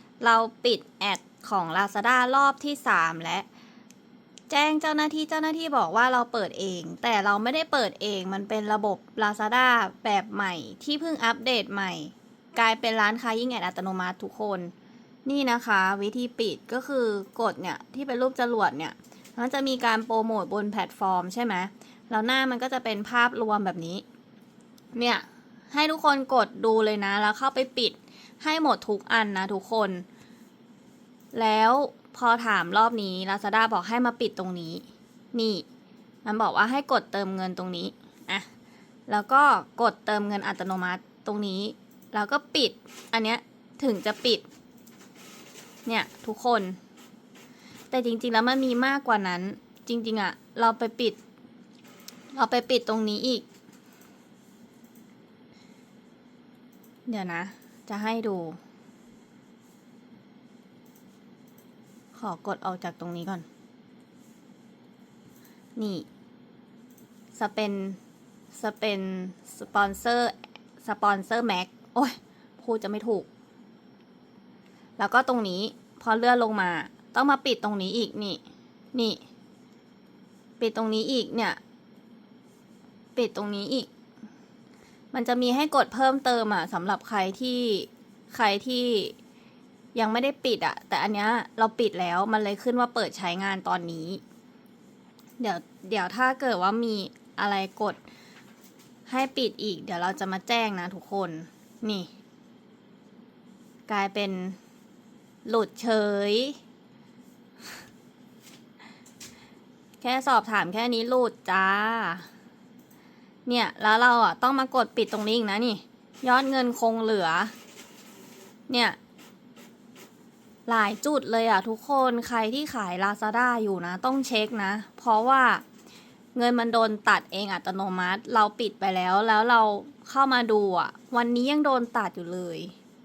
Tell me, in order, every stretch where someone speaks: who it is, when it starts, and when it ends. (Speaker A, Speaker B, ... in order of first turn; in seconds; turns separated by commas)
Speaker A: 0.2-3.5, Speaker A: 4.5-14.7, Speaker A: 15.2-24.0, Speaker A: 24.9-30.1, Speaker A: 31.3-35.6, Speaker A: 36.2-38.5, Speaker A: 39.1-44.5, Speaker A: 45.9-46.8, Speaker A: 47.9-51.2, Speaker A: 52.3-53.5, Speaker A: 57.1-58.6, Speaker A: 62.1-63.5, Speaker A: 65.8-66.0, Speaker A: 67.3-68.0, Speaker A: 68.5-73.3, Speaker A: 75.0-78.4, Speaker A: 78.9-79.2, Speaker A: 80.6-81.6, Speaker A: 83.1-83.9, Speaker A: 85.1-89.1, Speaker A: 89.9-94.2, Speaker A: 95.4-98.0, Speaker A: 99.1-102.1, Speaker A: 103.9-104.6, Speaker A: 105.4-106.6, Speaker A: 110.0-112.3, Speaker A: 113.5-117.5, Speaker A: 118.7-119.0, Speaker A: 120.7-125.6, Speaker A: 126.3-132.7